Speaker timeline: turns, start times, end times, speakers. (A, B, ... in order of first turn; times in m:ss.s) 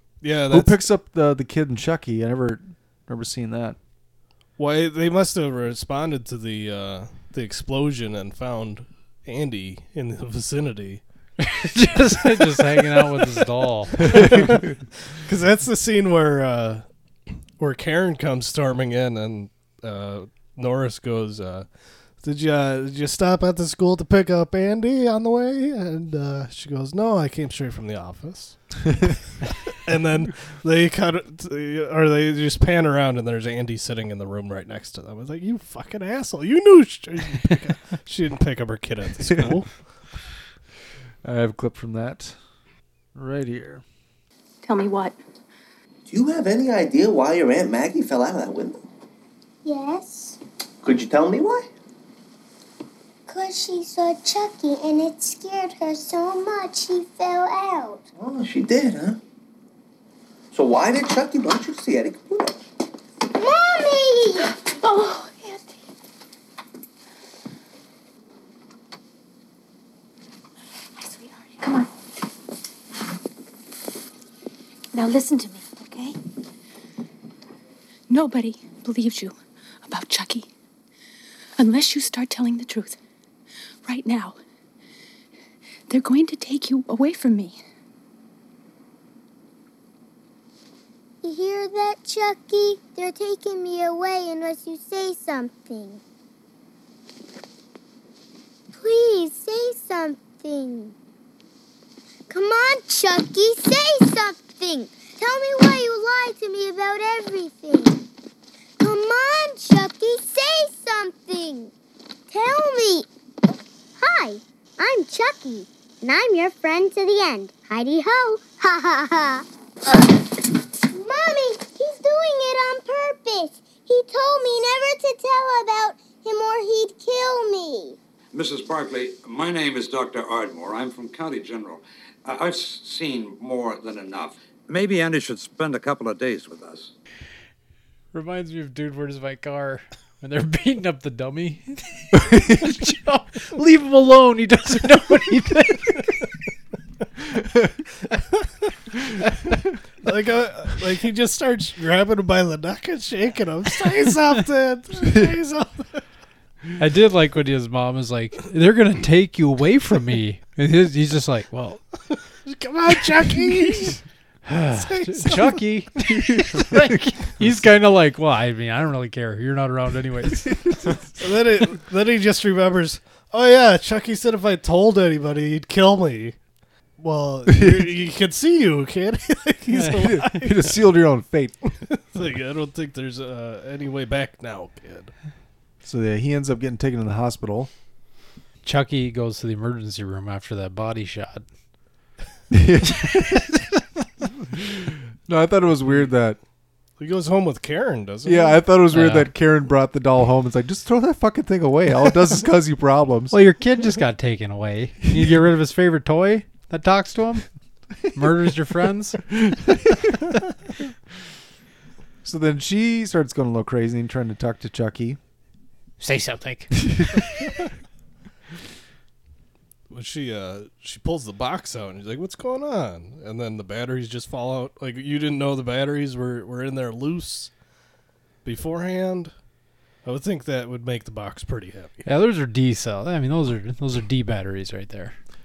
0:00.2-0:00.8 A
0:00.5-0:03.8 B
0:04.6-0:11.0 A
0:11.4-0:14.5 C
0:14.0-0:14.7 A
0:15.2-0:16.8 A
0:17.6-0:28.6 A
0:29.8-0:39.7 A
0:41.2-0:42.4 B
0:43.1-0:43.8 B
0:44.6-0:45.2 D
0:46.1-0:48.8 E
0:49.6-0:50.4 F
0:50.8-0:51.7 E
0:53.3-0:58.0 F
0:58.2-0:59.2 E
1:00.5-1:02.5 E
1:03.3-1:04.5 F
1:04.8-1:05.7 D
1:11.0-1:11.9 D
1:14.9-1:16.2 D
1:18.1-1:20.5 D
1:21.6-1:23.0 D
1:23.8-1:24.4 D
1:25.9-1:27.6 D
1:31.2-1:36.0 F
1:38.7-1:40.9 F
1:42.3-1:48.0 F
1:48.8-1:51.7 F
1:52.3-1:53.0 F
1:54.0-1:59.4 F
2:00.8-2:08.0 F
2:08.3-2:14.2 G
2:14.8-2:16.9 G
2:18.1-2:26.2 C
2:30.0-2:36.0 A
2:36.8-2:41.8 C
2:42.4-2:44.0 A
2:44.4-2:50.8 C
2:44.7-2:45.7 A
2:51.2-2:56.4 A
2:57.0-3:00.8 A
2:57.5-2:57.9 B
3:00.0-3:01.6 B
3:01.9-3:05.1 A
3:05.8-3:07.7 B
3:08.6-3:11.4 C
3:12.5-3:13.5 B
3:15.2-3:16.4 B
3:17.0-3:18.6 A
3:18.2-3:23.3 B
3:18.9-3:19.3 C
3:23.3-3:27.4 C
3:28.1-3:29.3 C
3:32.2-3:35.2 B
3:36.0-3:36.7 C
3:39.9-3:47.5 A
3:48.4-3:49.3 A
3:50.0-3:52.0 A
3:52.0-3:55.1 C